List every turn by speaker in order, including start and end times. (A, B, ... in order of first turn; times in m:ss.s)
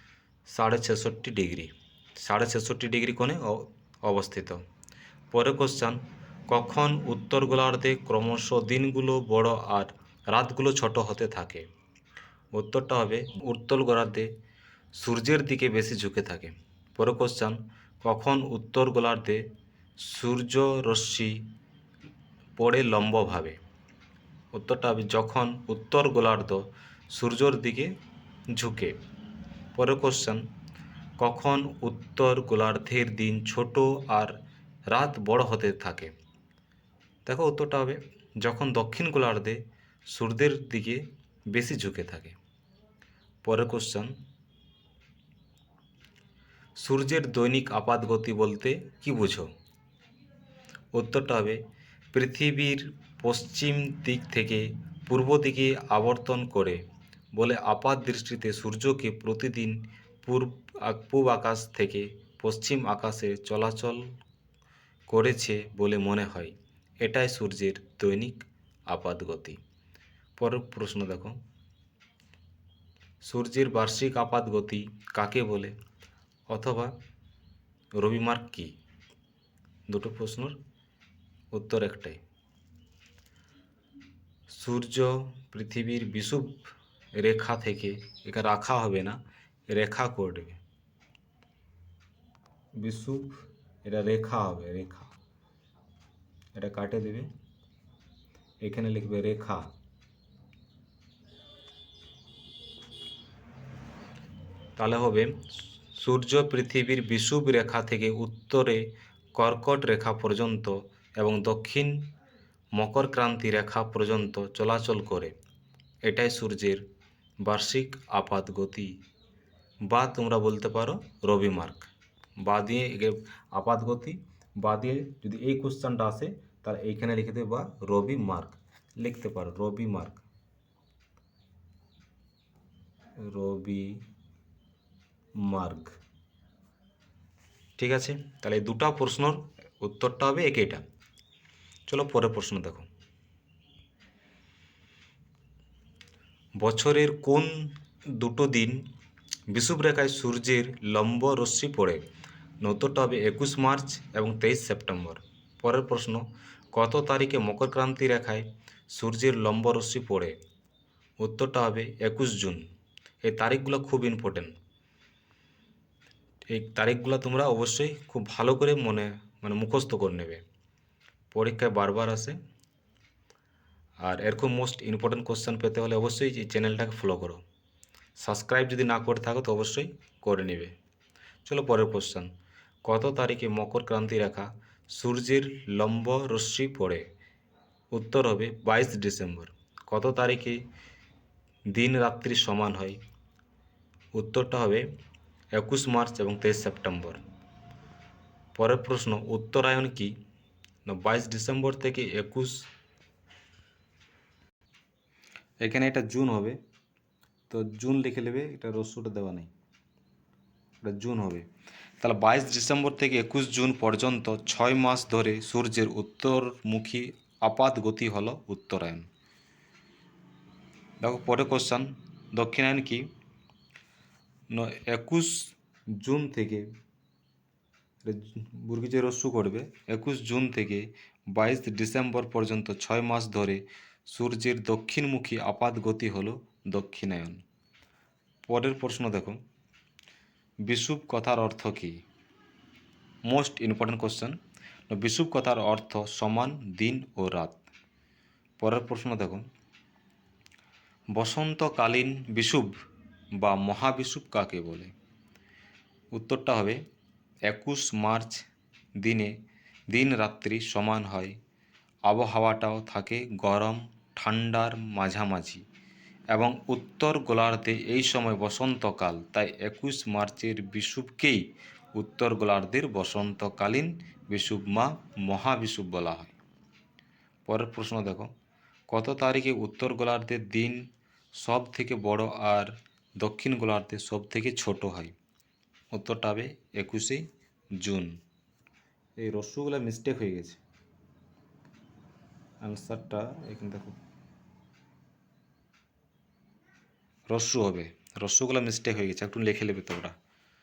0:00.5-0:04.6 A
0:05.3-0:11.7 A
0:12.5-0:14.3 A
0:14.9-0:19.4 A
0:20.0-0:21.4 A
0:22.6-0:23.6 A
0:24.5-0:27.9 A
0:28.5-0:29.0 A
0:29.7-0:30.4 A
0:31.2-0:34.4 A
0:34.9-0:36.1 A
0:37.2-0:42.4 A
0:43.4-0:44.1 A
0:46.8-0:49.5 A
0:50.9-0:51.6 A
0:52.1-0:56.8 A
0:57.3-1:04.1 A
1:05.1-1:09.6 A
1:10.4-1:11.4 A
1:13.2-1:15.7 A
1:16.5-1:16.9 A
1:18.0-1:18.7 A
1:19.9-1:20.6 A
1:21.5-1:22.2 A
1:24.5-1:29.2 A
1:29.7-1:30.6 A
1:32.8-1:35.1 A
1:36.6-1:37.3 A
1:38.6-1:39.7 A
1:44.8-1:45.4 A
1:45.9-1:52.0 A
1:52.7-1:55.3 A
1:56.0-1:56.8 A
1:57.4-1:58.9 A
1:59.9-2:01.9 A
2:02.4-2:10.2 A
2:13.2-2:14.0 A
2:15.4-2:15.9 A
2:17.8-2:20.8 A
2:21.9-2:22.8 A
2:26.6-2:28.8 A
2:29.5-2:32.0 A
2:32.6-2:40.4 A
2:41.2-2:42.7 A
2:43.2-2:44.6 A
2:46.5-2:50.4 A
2:51.3-2:52.4 A
2:54.0-2:57.4 A
2:58.2-3:00.7 A
3:01.4-3:02.3 A
3:02.8-3:07.1 A
3:07.9-3:10.6 A
3:11.7-3:13.0 A
3:14.1-3:14.9 A
3:15.5-3:17.2 A
3:18.5-3:20.2 A
3:20.8-3:22.7 A
3:25.6-3:26.6 A
3:27.5-3:29.5 A
3:30.8-3:31.4 A
3:32.0-3:39.1 A
3:41.0-3:43.1 A
3:44.5-3:46.6 A
3:48.0-3:57.4 A
3:58.5-3:59.4 A
4:00.6-4:02.0 A
4:03.2-4:04.4 A
4:04.9-4:07.6 A
4:08.6-4:09.4 A
4:11.1-4:12.7 A
4:13.4-4:14.9 A
4:16.1-4:16.8 A
4:17.5-4:18.4 A
4:19.0-4:19.3 A
4:19.9-4:21.4 A
4:22.0-4:25.6 A
4:26.3-4:36.3 A
4:37.4-4:38.3 A
4:38.9-4:40.8 A
4:41.3-4:45.1 A
4:45.9-4:47.2 A
4:47.8-4:48.1 A
4:49.2-4:50.6 A
4:52.6-4:53.9 A
4:57.3-5:00.1 A